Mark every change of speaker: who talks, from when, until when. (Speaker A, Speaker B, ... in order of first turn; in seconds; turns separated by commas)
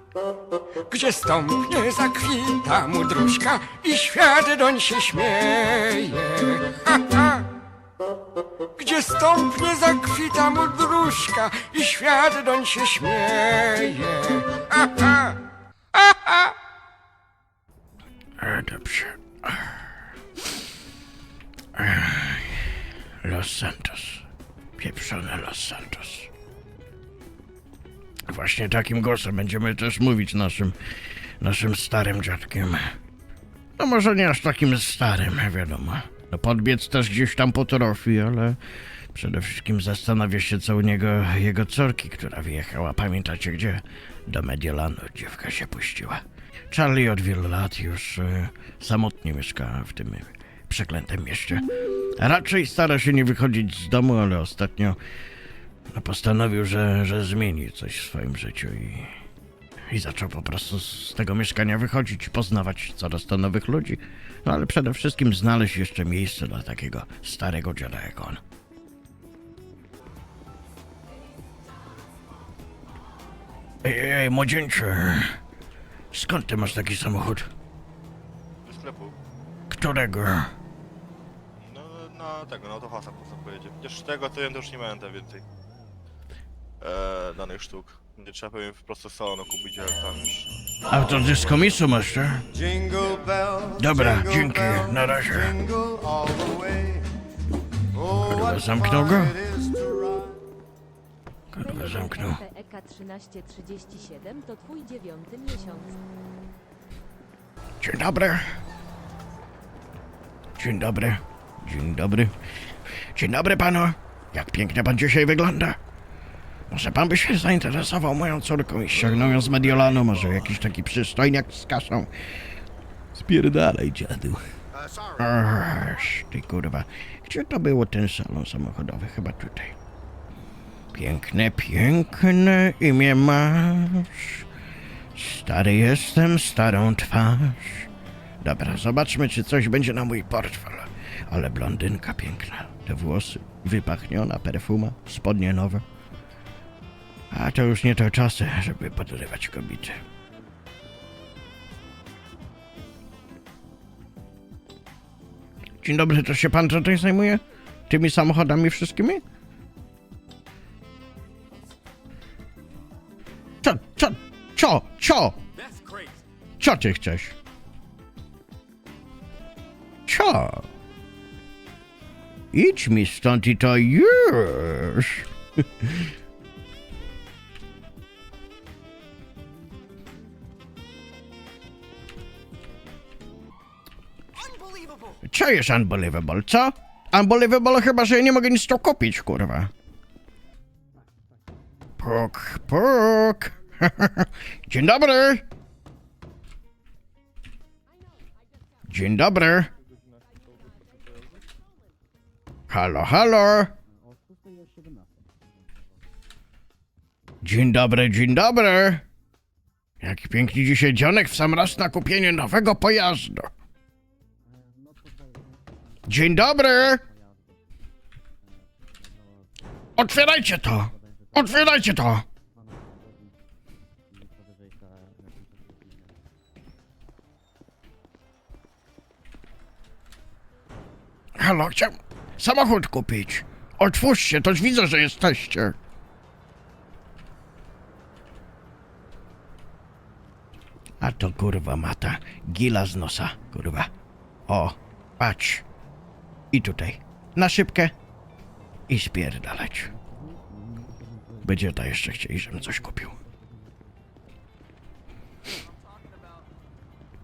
Speaker A: 0.9-7.5, Speaker A: 8.8-15.4, Speaker A: 15.9-16.5, Speaker B: 18.4-19.9, Speaker B: 21.7-24.2, Speaker B: 24.8-26.3, Speaker B: 28.3-32.9, Speaker B: 33.8-38.6, Speaker B: 39.1-55.0, Speaker B: 55.9-59.1, Speaker B: 59.9-68.4, Speaker B: 73.8-75.3, Speaker B: 76.1-77.5, Speaker C: 78.6-79.2, Speaker B: 79.7-80.5, Speaker C: 81.6-85.4, Speaker C: 86.8-91.8, Speaker B: 90.9-92.4, Speaker D: 92.8-94.5, Speaker B: 93.7-95.6, Speaker D: 95.9-97.1, Speaker D: 98.1-98.6, Speaker B: 98.2-99.5, Speaker D: 99.5-100.3, Speaker B: 101.5-102.4, Speaker E: 101.6-105.9, Speaker B: 107.8-108.4, Speaker B: 110.6-112.3, Speaker B: 113.1-115.8, Speaker B: 116.7-122.1, Speaker B: 123.1-124.4, Speaker B: 125.1-129.7, Speaker B: 130.9-134.4, Speaker B: 135.1-137.9, Speaker B: 138.4-145.8, Speaker B: 147.3-150.0, Speaker B: 155.8-159.2, Speaker B: 163.6-165.4, Speaker B: 166.6-167.3, Speaker B: 170.1-170.7, Speaker B: 172.5-175.3, Speaker B: 175.8-176.1, Speaker B: 185.3-189.7, Speaker B: 192.0-195.4, Speaker B: 198.9-199.7, Speaker B: 202.7-203.7, Speaker B: 207.4-209.0, Speaker B: 210.0-213.5, Speaker B: 216.1-217.0, Speaker B: 220.0-222.2, Speaker B: 231.4-235.8, Speaker B: 241.0-243.9, Speaker B: 244.5-245.6, Speaker B: 246.5-247.9, Speaker B: 248.9-249.9, Speaker B: 251.4-253.2